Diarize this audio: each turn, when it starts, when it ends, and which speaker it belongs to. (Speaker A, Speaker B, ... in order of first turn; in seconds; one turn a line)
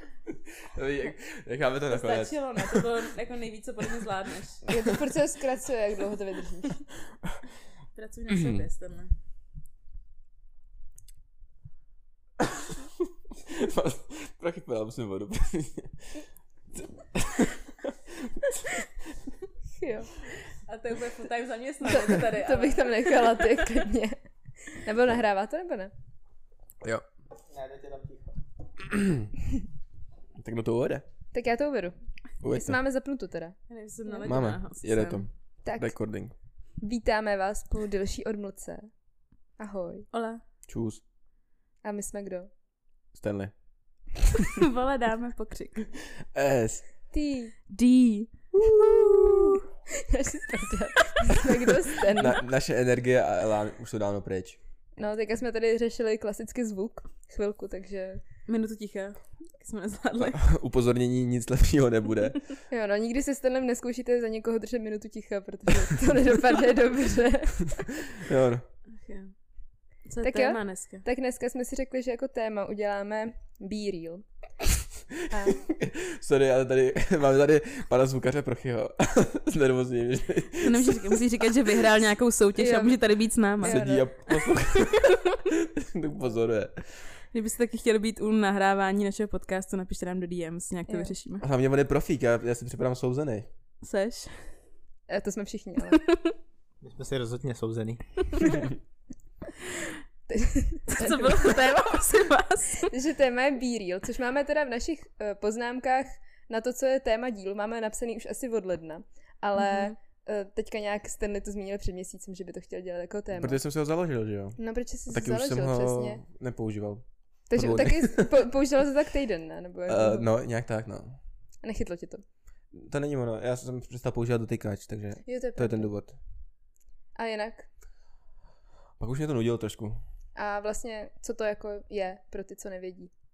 Speaker A: 0.6-2.9
Speaker B: 1.9-4.6
Speaker C: 4.6-6.8
Speaker B: 7.9-9.1
Speaker A: 13.5-17.9
Speaker C: 19.7-20.1
Speaker B: 20.5-23.6
Speaker C: 21.8-24.1
Speaker C: 24.7-25.9
Speaker D: 27.5-28.3
Speaker A: 28.9-29.3
Speaker A: 30.4-31.0
Speaker C: 31.3-33.5
Speaker A: 32.4-32.8
Speaker B: 33.7-35.3
Speaker A: 34.2-36.3
Speaker C: 35.6-36.0
Speaker C: 36.8-38.9
Speaker C: 39.6-40.1
Speaker B: 40.1-40.4
Speaker A: 40.7-41.0
Speaker C: 41.8-42.5
Speaker A: 43.1-43.5
Speaker B: 44.4-45.9
Speaker A: 46.3-46.9
Speaker C: 47.1-47.5
Speaker B: 47.7-48.3
Speaker A: 48.5-49.6
Speaker C: 48.9-49.2
Speaker C: 50.1-52.4
Speaker A: 52.1-54.6
Speaker C: 55.0-58.2
Speaker B: 58.5-60.4
Speaker A: 60.3-62.5
Speaker C: 62.7-68.1
Speaker A: 68.2-68.6
Speaker B: 69.0-69.3
Speaker B: 70.0-71.0
Speaker C: 70.2-74.2
Speaker C: 75.3-75.7
Speaker A: 75.7-81.2
Speaker B: 80.6-83.8
Speaker C: 82.6-83.0
Speaker C: 83.6-84.1
Speaker A: 83.6-87.0
Speaker B: 84.4-85.2
Speaker B: 87.3-91.4
Speaker C: 90.9-91.1
Speaker A: 91.4-93.5
Speaker B: 93.8-94.5
Speaker C: 95.1-96.0
Speaker B: 95.9-96.3
Speaker D: 96.8-98.6
Speaker C: 100.3-101.8
Speaker B: 100.9-102.9
Speaker C: 102.8-113.6
Speaker B: 109.5-109.9
Speaker A: 113.3-118.4
Speaker C: 114.6-116.2
Speaker C: 117.5-120.3
Speaker A: 119.9-121.2
Speaker C: 121.6-122.2
Speaker A: 122.7-126.2
Speaker C: 125.2-125.9
Speaker C: 127.1-127.7
Speaker A: 129.0-130.0
Speaker C: 130.3-133.1